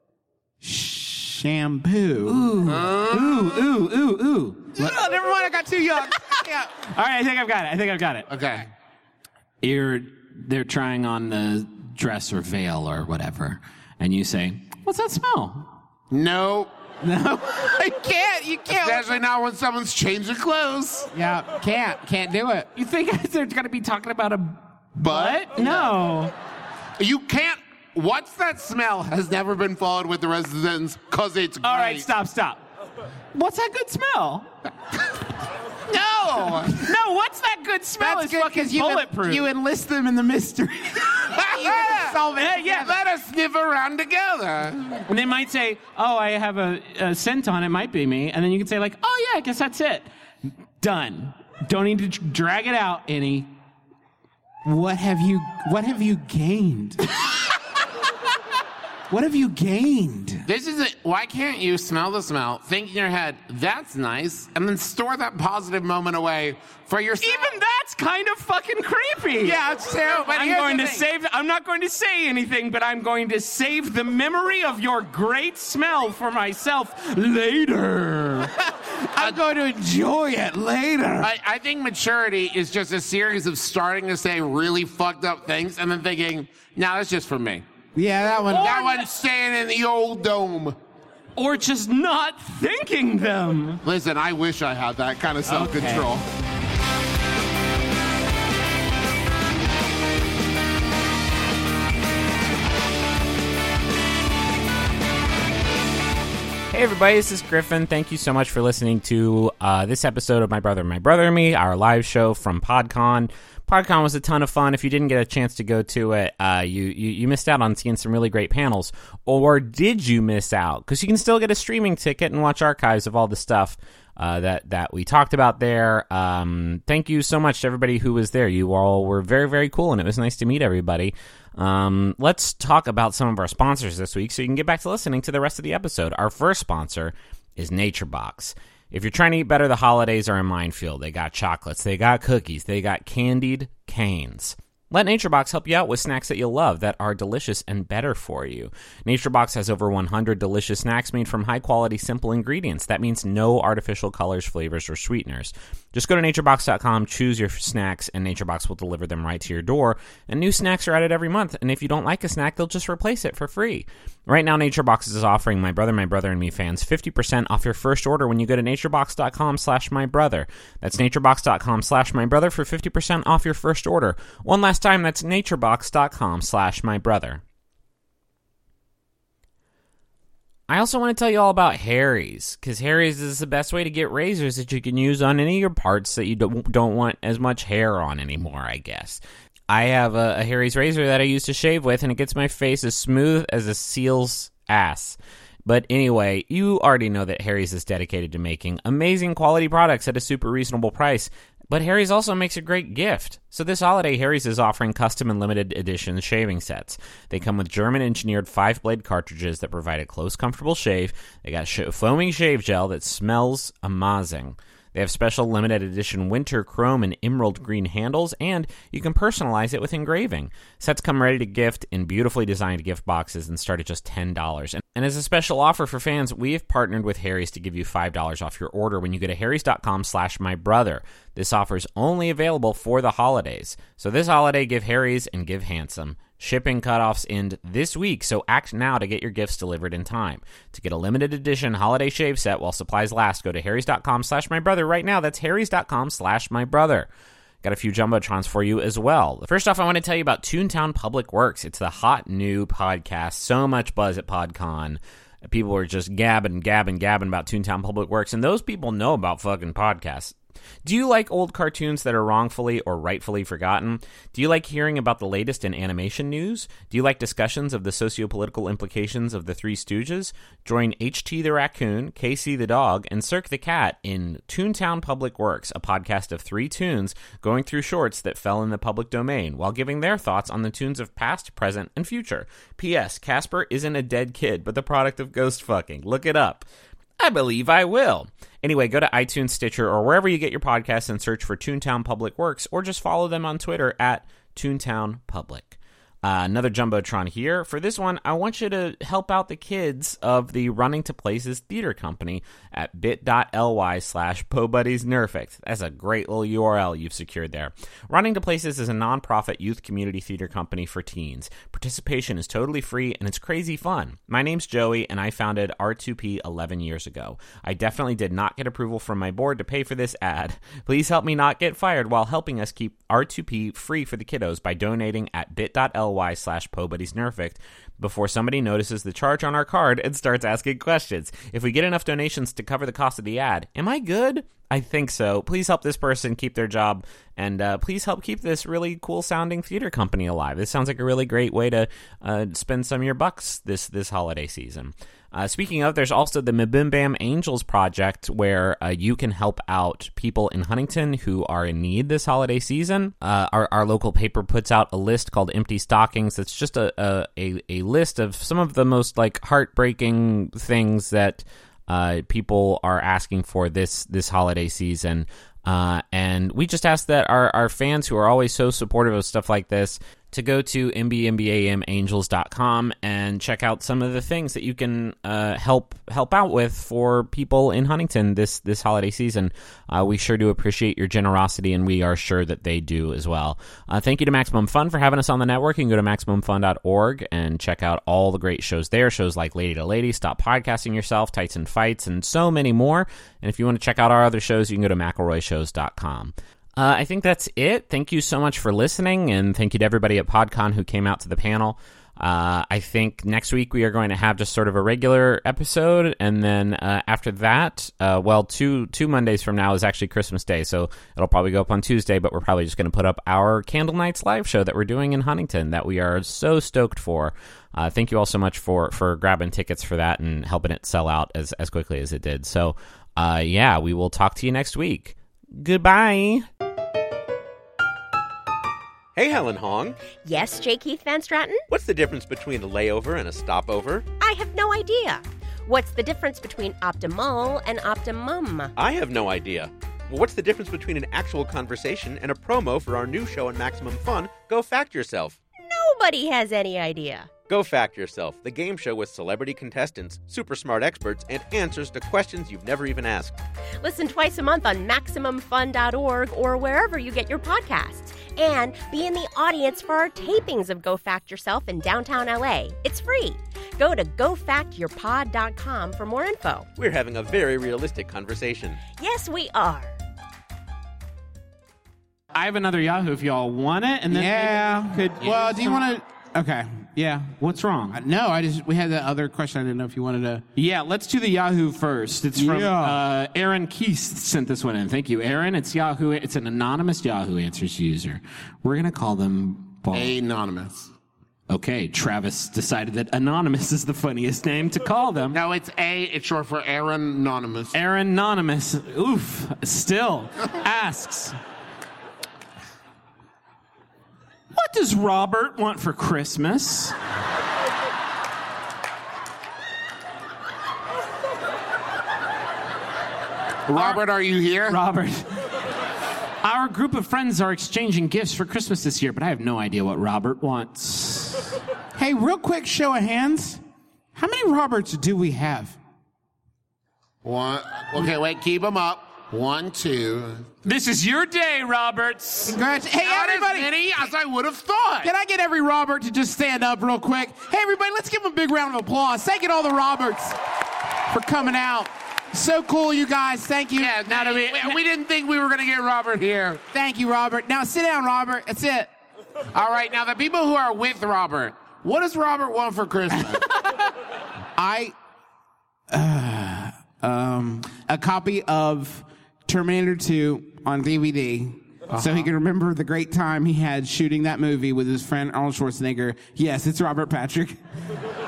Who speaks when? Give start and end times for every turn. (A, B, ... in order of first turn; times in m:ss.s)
0:00.6-0:02.5 A
0:02.3-0:04.9 B
0:02.7-0:03.5 C
0:04.8-0:06.7 A
0:06.9-0:08.3 B
0:08.3-0:08.7 C
0:09.6-0:15.7 B
0:16.1-0:16.7 C
0:17.0-0:19.2 A
0:18.7-0:21.1 C
0:21.1-0:22.7 A
0:22.8-0:26.3 B
0:25.0-0:25.9 C
0:27.0-0:32.1 C
0:31.6-0:32.6 B
0:33.3-0:34.5 B
0:35.9-0:36.8 C
0:36.7-0:39.5 B
0:38.0-0:43.0 A
0:41.4-0:45.0 C
0:42.4-0:42.9 B
0:45.1-0:50.1 B
0:50.8-0:53.5 B
0:54.6-0:57.0 A
0:59.1-1:00.4 A
1:00.5-1:07.5 C
1:07.2-1:09.6 B
1:09.4-1:10.6 A
1:09.7-1:11.0 C
1:10.2-1:18.5 B
1:18.7-1:21.3 A
1:21.2-1:27.6 C
1:28.0-1:28.9 A
1:28.5-1:30.8 C
1:28.6-1:29.0 B
1:31.4-1:33.8 B
1:33.8-1:36.2 C
1:35.5-1:36.1 B
1:46.7-2:57.4 D
3:00.7-4:07.1 D
4:07.6-4:46.7 D
4:47.2-7:06.5 D
7:09.2-7:10.0 E
7:10.1-7:11.6 F
7:11.7-7:14.1 E
7:14.2-7:18.7 F
7:18.8-7:25.4 E
7:25.6-7:27.4 F
7:27.4-7:33.4 E
7:33.8-7:46.7 F
7:46.8-7:48.8 E
7:48.9-7:49.9 F
7:52.3-7:55.8 B
7:54.1-7:57.3 A
7:57.4-7:58.0 B
7:57.9-8:00.4 A
8:00.6-8:10.1 B
8:02.4-8:03.0 A
8:09.9-8:10.9 C
8:11.5-8:15.4 B
8:15.3-8:17.7 C
8:17.7-8:21.4 B
8:24.5-8:27.0 B
8:33.7-8:34.8 C
8:33.8-8:34.0 B
8:34.7-8:35.3 B
8:36.4-8:41.5 B
8:42.0-8:43.6 A
8:44.2-8:45.8 A
8:47.2-8:50.5 C
8:50.6-8:52.6 B
8:52.5-8:53.7 A
8:53.0-8:55.1 C
8:55.0-9:00.4 A
9:01.1-9:04.6 A
9:03.8-9:06.6 C
9:06.7-9:08.9 A
9:09.5-9:13.5 C
9:14.6-9:14.9 A
9:15.9-9:27.6 A